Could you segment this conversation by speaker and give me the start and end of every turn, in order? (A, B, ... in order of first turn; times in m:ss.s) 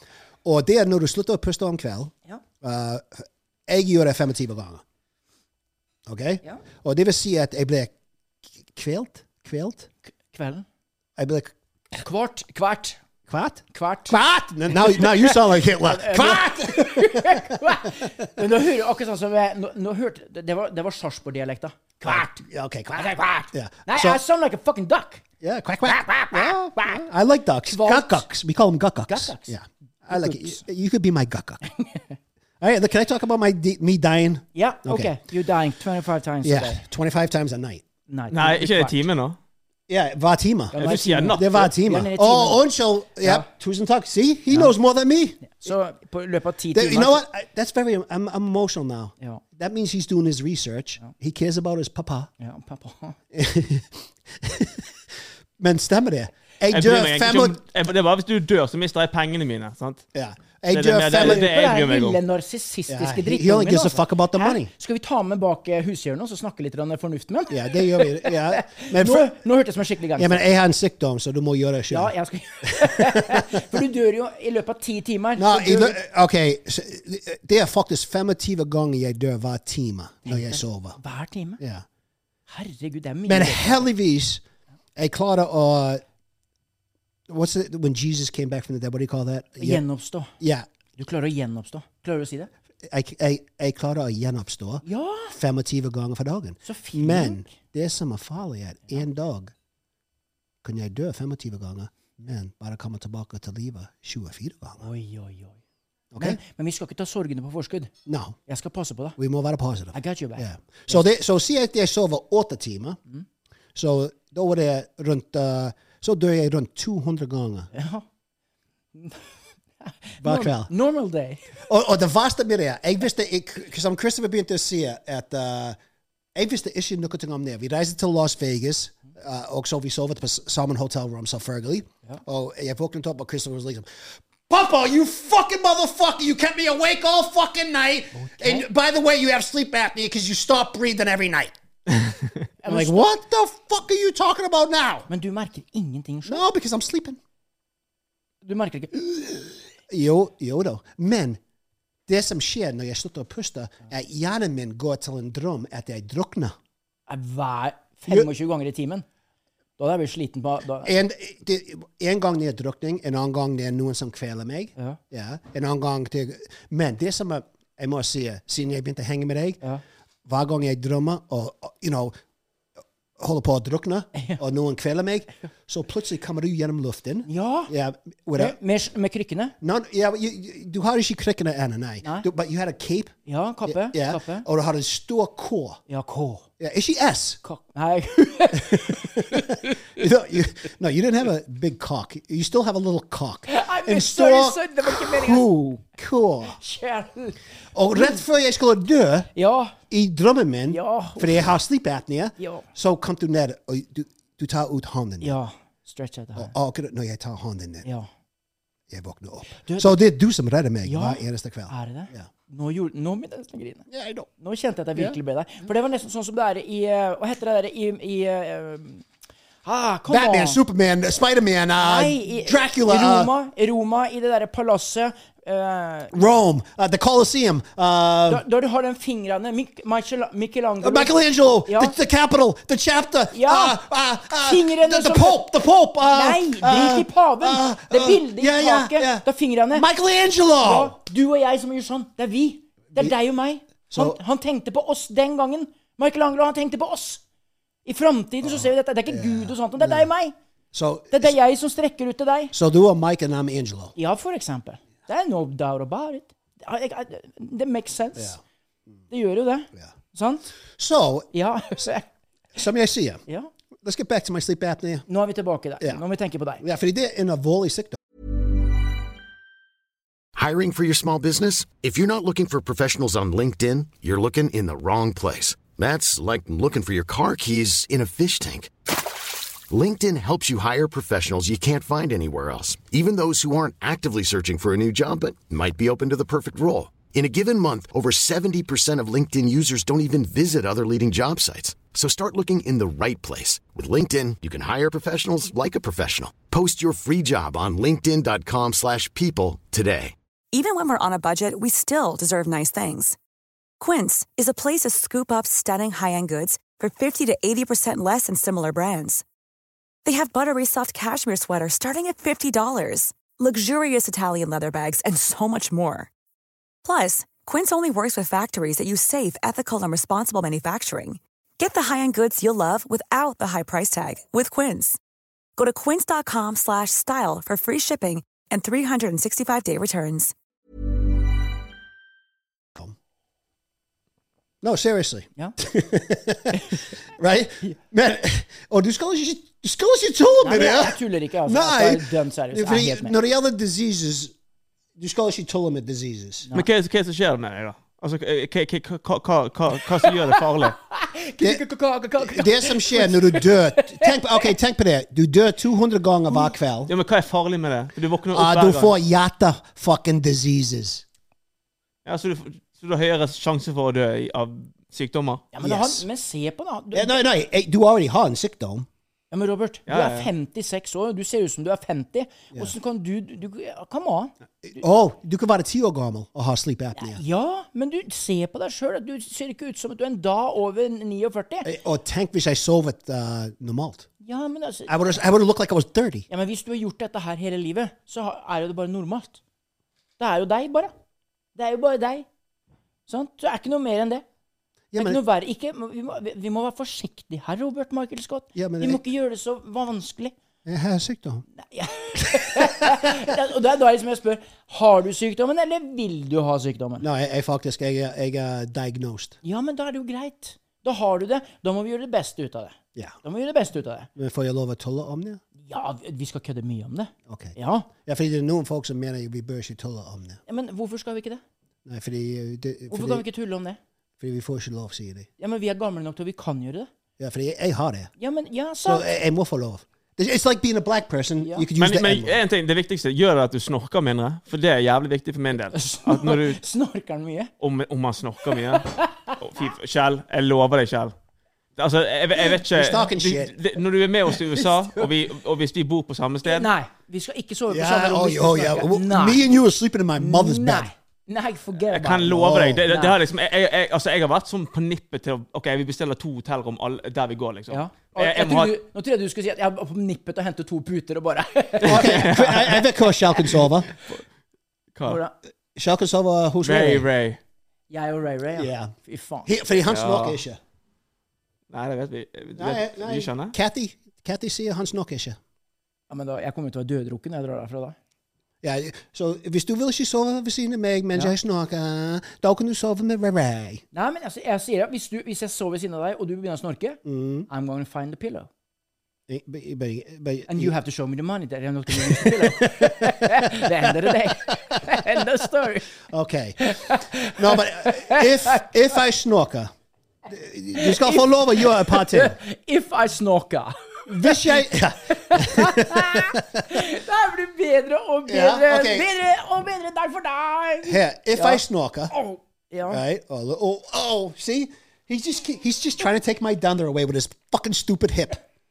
0:00.4-0:04.8 A
0:06.0-0:07.9 A
0:08.7-0:09.9 A
0:10.2-0:10.6 B
0:11.2-0:11.5 A
0:11.9-0:13.0 B
0:13.3-0:18.1 A
0:13.7-0:14.2 B
0:14.7-0:22.4 B
0:22.0-0:24.2 A
0:23.0-0:25.2 B
0:25.4-0:31.6 A
0:26.3-0:27.0 B
0:27.6-0:28.2 B
0:29.1-0:29.5 B
0:30.1-0:30.6 B
0:31.7-0:32.1 B
0:32.6-0:35.2 A
0:34.5-0:36.8 B
0:36.4-0:37.8 A
0:38.1-0:39.0 B
0:38.3-0:39.4 C
0:39.9-0:45.7 A
0:40.7-0:42.7 B
0:40.8-0:41.7 C
0:43.2-0:43.5 B
0:45.4-0:47.2 B
0:46.7-0:52.3 A
0:52.4-0:53.2 B
0:53.3-0:54.9 A
0:55.6-0:57.6 A
0:56.7-1:00.0 C
1:00.1-1:01.5 A
1:00.7-1:02.2 C
1:01.2-1:10.4 B
1:02.9-1:04.7 A
1:07.5-1:09.3 A
1:10.2-1:12.1 A
1:11.9-1:16.0 B
1:12.6-1:13.6 A
1:15.4-1:21.0 A
1:20.2-1:21.6 B
1:21.6-1:21.8 A
1:22.5-1:23.9 B
1:23.2-1:24.4 A
1:25.0-1:26.0 A
1:27.3-1:29.8 A
1:29.6-1:30.3 B
1:30.4-1:30.7 A
1:31.0-1:32.5 B
1:32.8-1:39.5 A
1:34.8-1:35.4 B
1:36.6-1:37.5 B
1:40.6-1:44.8 A
1:44.8-1:45.6 B
1:46.1-1:46.4 A
1:46.2-1:47.9 B
1:48.0-1:48.4 A
1:48.5-1:49.2 B
1:49.2-1:53.0 A
1:49.9-1:51.0 B
1:53.7-1:57.7 A
1:57.7-1:58.0 B
1:58.9-1:59.3 B
1:59.8-2:01.5 B
2:00.2-2:00.7 A
2:01.6-2:05.8 A
2:06.3-2:21.5 A
2:18.1-2:18.7 B
2:22.6-2:23.1 B
2:22.6-2:25.1 A
2:25.1-2:26.4 B
2:26.2-2:27.2 A
2:28.4-2:29.5 B
2:29.9-2:31.4 A
2:32.1-2:36.6 A
2:37.1-2:39.0 B
2:39.8-2:40.9 B
2:40.8-2:49.6 A
2:50.2-2:52.1 A
2:53.2-2:58.6 A
2:54.1-2:54.4 B
2:57.2-2:57.7 B
2:58.4-2:59.5 B
2:59.6-3:03.1 A
3:03.2-3:04.4 B
3:03.6-3:05.8 A
3:05.9-3:06.5 B
3:06.6-3:07.4 A
3:07.4-3:09.8 B
3:08.5-3:16.6 A
3:13.5-3:15.5 B
3:16.6-3:17.4 B
3:17.7-3:19.3 A
3:17.9-3:18.2 B
3:19.3-3:19.8 B
3:19.9-3:25.4 A
3:20.7-3:21.5 B
3:22.4-3:22.7 B
3:25.2-3:26.5 B
3:26.3-3:27.8 A
3:27.8-3:28.1 B
3:28.9-3:32.3 A
3:29.6-3:30.0 B
3:30.8-3:33.9 B
3:33.9-3:34.3 A
3:34.4-3:39.0 B
3:39.6-3:40.6 B
3:40.1-3:43.3 A
3:41.8-3:46.1 B
3:46.1-3:48.4 A
3:48.3-3:51.1 B
3:50.8-4:01.0 A
3:51.7-3:52.0 B
3:53.3-3:53.8 B
3:54.4-3:55.4 B
3:56.0-3:59.9 B
4:00.6-4:07.2 B
4:03.9-4:04.2 A
4:07.8-4:10.3 B
4:08.4-4:10.1 A
4:10.7-4:11.3 A
4:11.1-4:12.5 B
4:12.5-4:13.9 A
4:14.0-4:18.4 B
4:19.1-4:20.4 B
4:20.8-4:21.3 A
4:21.3-4:22.1 B
4:22.6-4:23.2 A
4:23.8-4:25.0 A
4:25.1-4:26.6 B
4:26.6-4:28.0 A
4:30.3-4:38.7 D
4:39.7-5:00.1 D
5:00.5-5:03.2 E
5:03.8-5:09.2 E
5:10.0-5:16.1 E
5:16.8-5:25.0 E
5:25.6-5:30.3 E
5:34.6-5:44.3 A
5:40.4-5:43.2 B
5:45.0-5:46.5 A
5:46.5-5:50.8 C
5:50.0-5:54.5 B
5:52.2-5:56.9 A
5:56.9-5:58.9 C
5:58.3-6:01.0 A
6:02.0-6:05.4 C
6:05.5-6:07.2 B
6:05.6-6:06.0 A
6:06.9-6:08.9 A
6:09.3-6:14.3 B
6:09.9-6:10.3 C
6:14.6-6:17.2 A
6:17.0-6:21.7 B
6:21.6-6:24.1 A
6:24.2-6:24.9 B
6:24.9-6:26.3 A
6:26.3-6:29.4 B
6:30.2-6:30.9 B
6:31.6-6:32.2 B
6:33.1-6:34.2 B
6:34.9-6:35.2 A
6:34.9-6:40.3 B
6:38.5-6:39.0 A
6:40.6-6:41.4 A
6:41.6-6:47.0 B
6:42.5-6:43.2 A
6:47.0-6:49.4 A
6:49.4-6:54.1 B
6:54.2-6:55.4 A
6:55.6-6:57.9 B
6:57.3-7:00.4 A
7:00.5-7:01.4 B
7:01.8-7:03.2 A
7:02.9-7:03.8 B
7:04.2-7:05.3 A
7:05.4-7:06.9 B
7:07.2-7:08.1 A
7:08.2-7:09.0 B
7:08.8-7:12.4 A
7:11.4-7:11.7 B
7:11.8-7:16.6 C
7:15.7-7:17.5 B
7:17.6-7:21.1 C
7:18.5-7:19.4 B
7:21.8-7:26.7 C
7:22.6-7:23.5 A
7:24.5-7:25.1 B
7:26.4-7:29.5 B
7:27.7-7:30.9 A
7:30.2-7:33.2 B
7:31.9-7:38.8 C
7:32.2-7:32.8 A
7:37.7-7:42.7 B
7:41.8-7:42.8 C
7:41.8-7:43.9 A
7:45.0-7:45.2 C
7:45.0-7:45.3 B
7:45.7-7:47.1 A
7:46.6-7:47.4 C
7:47.9-7:49.5 B
7:48.6-7:48.9 A
7:49.4-7:50.6 A
7:49.8-7:50.4 C
7:51.7-7:53.5 C
7:52.6-7:55.4 A
7:56.1-7:58.0 B
7:58.6-8:03.8 A
8:03.9-8:08.5 B
8:07.0-8:07.5 A
8:09.3-8:10.7 A
8:10.5-8:15.9 B
8:11.9-8:14.3 A
8:16.0-8:19.7 A
8:16.6-8:18.7 B
8:20.3-8:22.4 A
8:20.7-8:33.0 B
8:24.1-8:26.8 A
8:28.3-8:29.1 A
8:30.8-8:32.1 A
8:32.9-8:38.4 A